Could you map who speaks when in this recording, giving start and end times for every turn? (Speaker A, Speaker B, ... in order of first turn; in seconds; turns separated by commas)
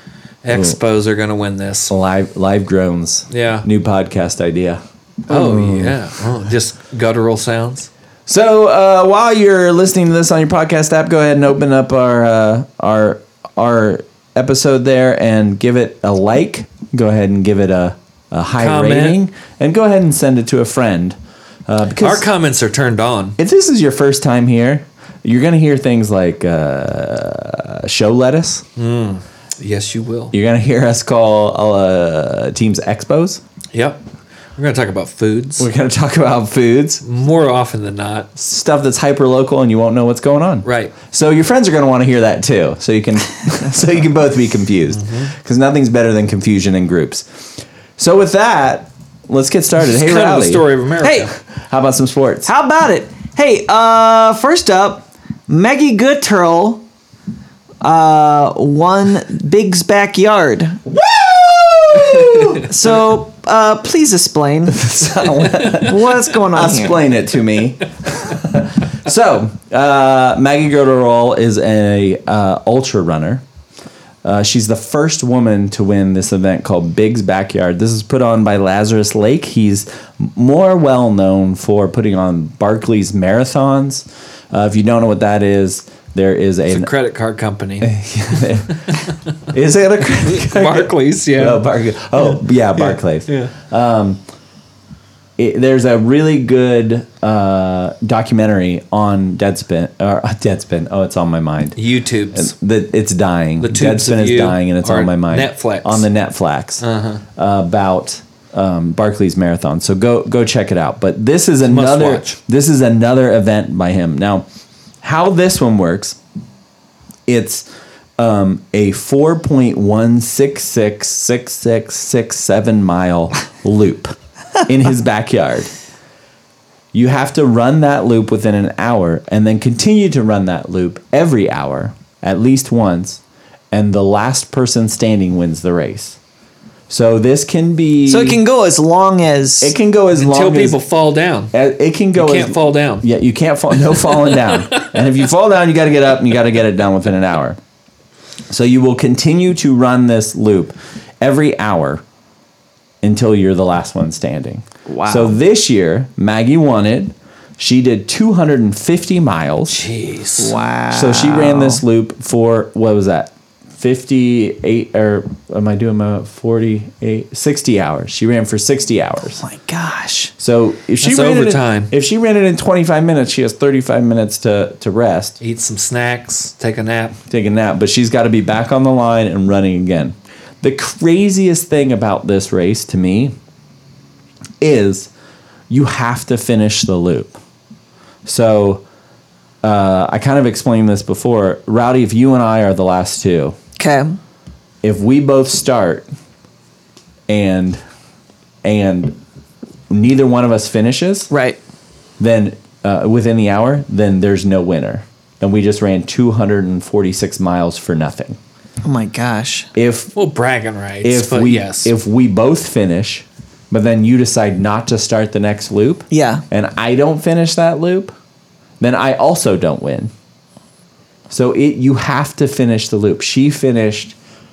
Speaker A: 0.4-1.9, Speaker B: 0.5-0.8, Speaker B: 1.9-6.0, Speaker A: 3.3-3.7, Speaker A: 5.3-7.9, Speaker B: 8.3-21.1, Speaker A: 18.6-19.2, Speaker B: 21.7-22.3, Speaker A: 22.0-23.4, Speaker B: 23.4-28.6, Speaker A: 28.8-30.3, Speaker B: 30.3-33.4, Speaker A: 33.7-34.0, Speaker A: 34.6-35.7, Speaker B: 35.6-37.0, Speaker A: 37.0-38.3, Speaker B: 38.3-47.2, Speaker A: 40.6-41.0, Speaker A: 45.0-45.3, Speaker B: 48.0-50.7, Speaker A: 49.9-51.3, Speaker C: 51.0-51.3, Speaker B: 51.5-52.5, Speaker C: 52.4-56.8, Speaker C: 57.8-60.8, Speaker B: 60.9-62.6, Speaker C: 62.6-64.9, Speaker B: 64.7-73.4, Speaker C: 65.7-67.0, Speaker B: 74.2-86.9, Speaker A: 86.7-89.1, Speaker B: 87.8-88.9, Speaker B: 89.5-94.2, Speaker A: 90.2-91.6, Speaker A: 92.2-93.5, Speaker B: 95.4-101.8, Speaker A: 101.8-102.5, Speaker B: 102.3-106.8, Speaker A: 103.6-106.1, Speaker A: 106.8-107.2, Speaker B: 107.3-114.4, Speaker A: 111.7-112.4, Speaker B: 115.0-116.2, Speaker B: 117.3-117.6, Speaker B: 118.2-124.1, Speaker B: 124.7-125.7, Speaker B: 126.9-133.2, Speaker B: 133.7-136.2, Speaker B: 136.9-138.4, Speaker C: 138.1-139.7, Speaker B: 139.6-140.8, Speaker A: 140.1-141.5, Speaker B: 141.5-147.6, Speaker A: 142.1-143.1, Speaker A: 143.9-144.9, Speaker B: 148.5-152.0, Speaker B: 153.0-159.8, Speaker C: 154.9-155.4, Speaker A: 159.7-160.5, Speaker C: 160.4-161.8, Speaker B: 160.9-169.4, Speaker C: 169.3-170.3, Speaker B: 170.4-175.3, Speaker A: 171.0-171.9, Speaker A: 175.4-177.2, Speaker B: 177.3-183.3, Speaker B: 184.6-185.1, Speaker B: 185.7-187.3, Speaker B: 188.2-188.8, Speaker B: 189.6-193.5, Speaker C: 193.8-194.2, Speaker B: 194.8-196.0, Speaker B: 197.3-197.8, Speaker B: 198.6-199.2, Speaker B: 199.9-201.3, Speaker C: 201.3-201.6, Speaker B: 202.2-208.4, Speaker C: 208.8-209.7, Speaker B: 209.7-210.1, Speaker A: 210.1-211.9, Speaker B: 211.0-218.1, Speaker C: 216.1-216.4, Speaker B: 218.8-220.1, Speaker B: 221.3-224.1